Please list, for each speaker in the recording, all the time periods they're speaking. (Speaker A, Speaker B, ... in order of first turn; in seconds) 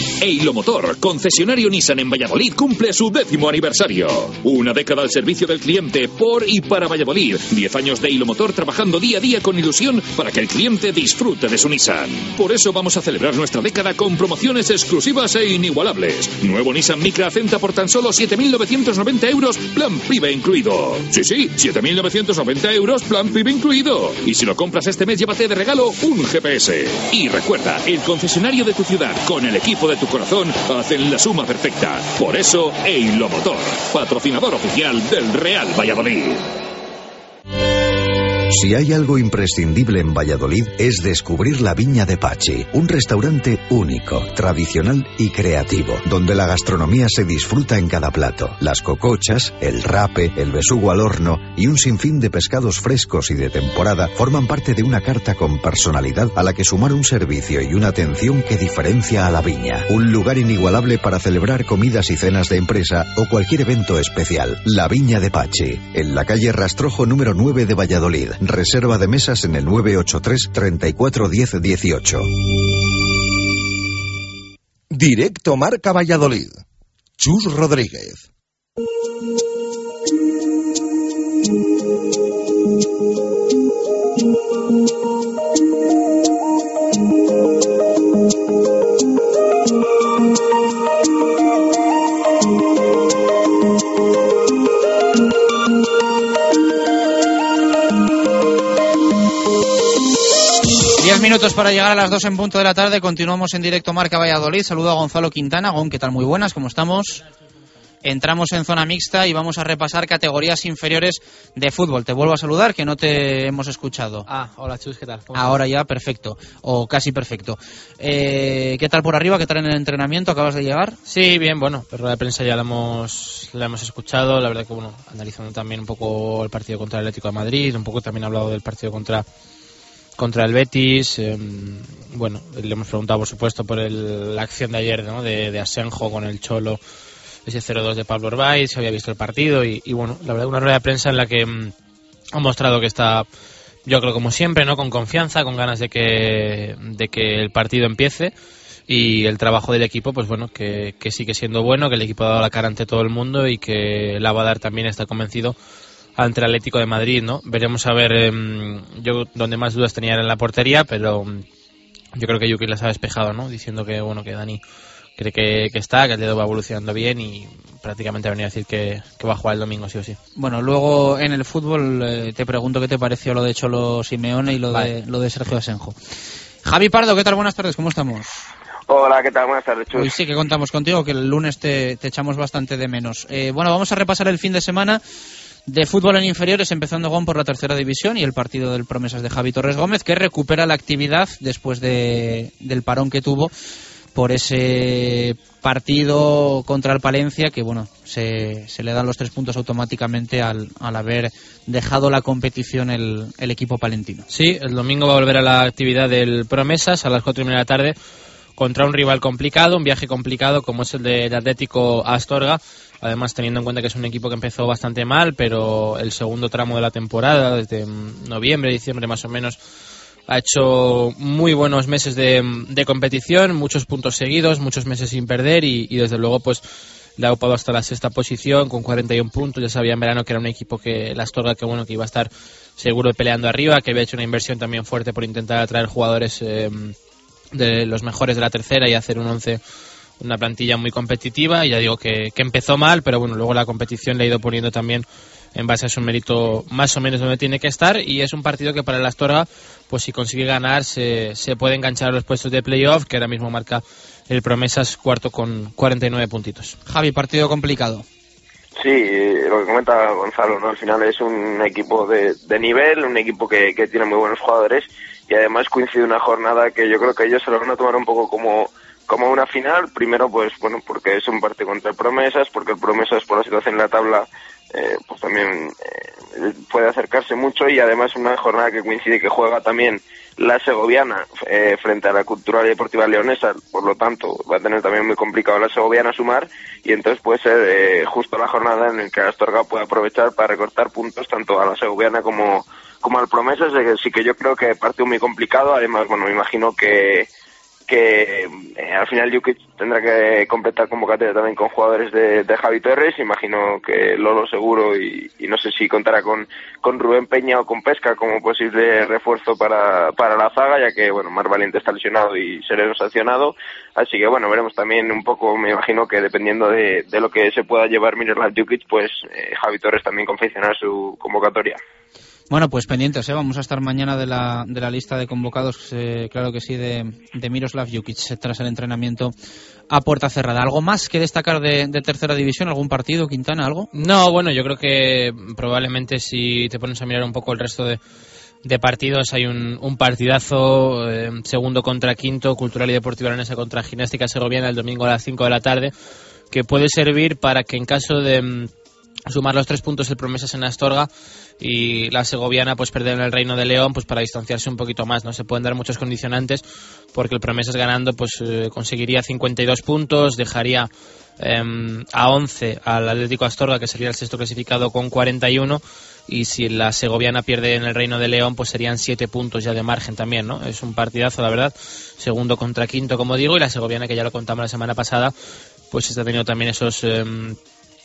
Speaker A: 0.2-36.4
Speaker B: 38.5-72.3
Speaker C: 74.9-76.6, 77.2-78.2
Speaker D: 101.0-107.2, 108.0-114.3, 115.3-121.0, 170.4-176.0, 176.7-178.3, 179.9-185.0, 185.7-193.5, 194.2-204.3, 256.9-258.1, 322.5-329.3, 329.9-333.9
Speaker E: 114.3-115.6, 121.1-129.2, 130.2-136.8, 137.4-141.7, 142.3-143.3, 143.9-148.3, 148.9-155.6, 156.2-161.4, 162.2-164.6, 165.2-170.2, 204.3-208.0, 208.6-219.6, 220.3-226.6, 227.2-236.9, 237.5-239.6, 240.2-256.8, 333.9-338.0, 338.6-345.9, 346.5-348.7, 349.3-351.1, 351.6-356.6, 357.1-375.3, 375.9-377.6
Speaker F: 178.9-180.1, 258.8-297.3, 297.9-321.8